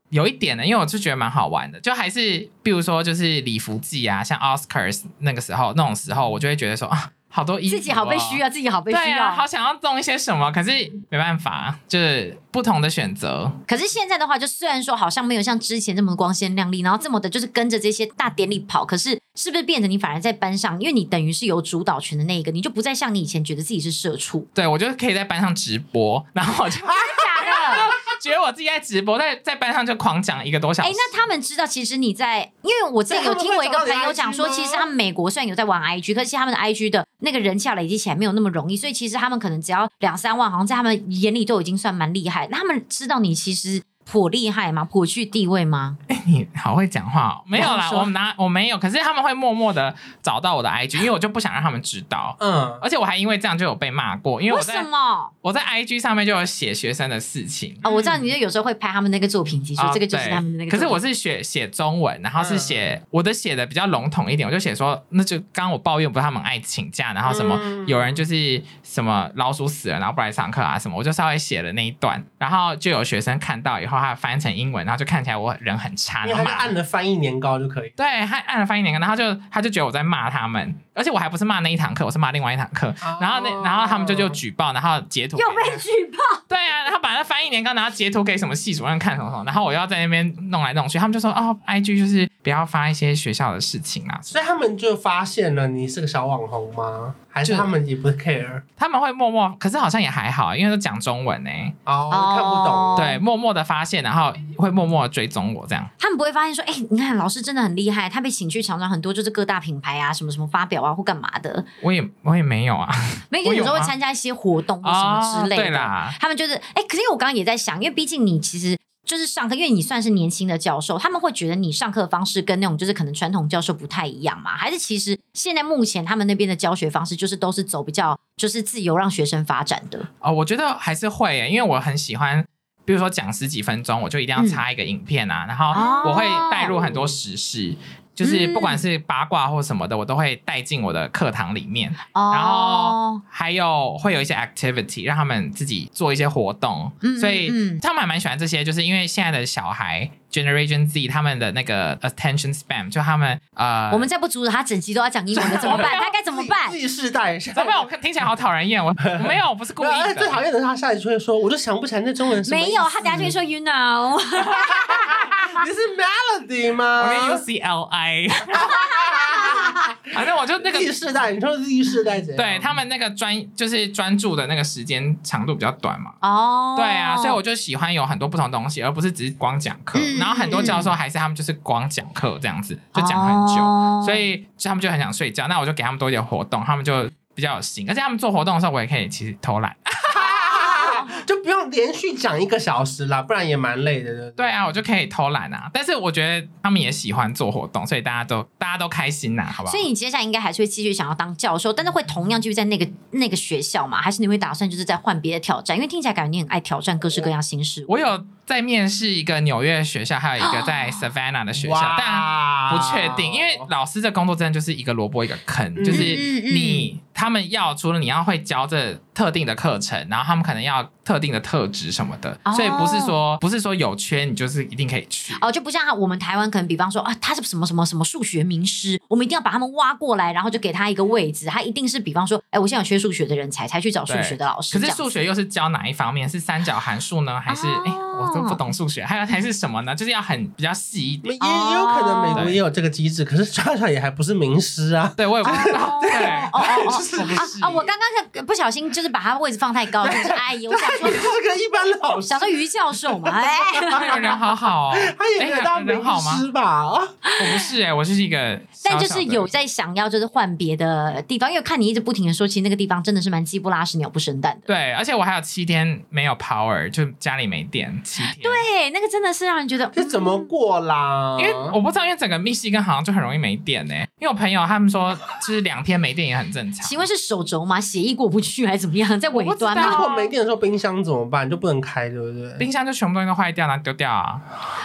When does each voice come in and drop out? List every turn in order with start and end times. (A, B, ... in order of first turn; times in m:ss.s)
0:00.1-0:13.6 A
0:07.7-0:09.4 B
0:13.7-0:24.5 B
0:24.5-0:31.1 A
0:26.9-0:27.9 C
0:26.9-0:27.9 B
0:30.8-0:46.0 B
0:33.1-0:34.9 C
0:46.1-0:54.9 A
0:47.6-0:48.1 B
0:52.4-0:52.8 C
0:54.5-0:55.3 B
0:55.4-0:57.8 A
0:57.8-0:58.3 C
0:57.8-1:01.0 B
0:59.8-1:16.7 A
1:02.4-1:02.9 C
1:07.2-1:08.2 C
1:16.2-1:17.9 C
1:18.0-1:25.8 A
1:23.0-1:24.4 C
1:25.4-1:26.4 B
1:26.5-1:34.4 A
1:34.3-1:38.6 C
1:37.4-1:37.7 A
1:38.8-1:41.8 A
1:41.8-1:43.0 C
1:42.1-1:43.2 B
1:43.0-1:45.9 A
1:46.0-1:51.6 B
1:51.8-1:53.9 A
1:53.3-2:10.0 B
1:54.8-1:56.2 A
2:10.2-2:34.1 A
2:15.7-2:16.8 B
2:15.8-2:16.3 C
2:18.2-2:18.8 B
2:22.1-2:23.2 B
2:27.0-2:27.8 B
2:33.9-2:36.8 B
2:35.3-2:36.1 A
2:35.5-2:37.9 C
2:37.5-2:40.4 A
2:39.0-2:43.4 C
2:42.4-2:45.4 B
2:44.4-2:47.4 C
2:47.0-2:48.7 A
2:48.5-2:52.8 C
2:48.6-2:49.9 B
2:50.1-2:50.9 A
2:52.4-2:56.2 A
2:56.2-2:57.4 B
2:56.8-3:10.8 A
2:59.9-3:00.9 B
3:00.5-3:00.9 C
3:02.9-3:04.2 B
3:10.1-3:14.6 C
3:10.5-3:11.1 B
3:14.4-3:19.8 A
3:19.6-3:28.0 B
3:27.9-3:45.4 A
3:30.4-3:31.0 B
3:31.6-3:33.7 C
3:35.8-3:36.2 C
3:35.9-3:36.9 B
3:42.4-3:43.1 B
3:45.3-3:55.1 B
3:54.1-4:01.3 A
3:57.5-3:58.6 B
4:01.2-4:07.5 C
4:01.4-4:02.5 B
4:05.2-4:07.9 A
4:05.4-4:11.4 B
4:10.0-4:14.3 C
4:12.1-4:14.4 B
4:13.9-4:16.4 A
4:14.9-4:17.1 C
4:17.2-4:17.7 B
4:17.4-4:19.5 A
4:18.8-4:24.7 B
4:24.6-4:28.6 A
4:28.2-4:30.5 B
4:29.9-4:31.8 C
4:31.4-4:37.0 A
4:36.8-4:40.1 B
4:39.3-4:40.3 A
4:39.7-4:42.7 C
4:42.6-4:44.4 A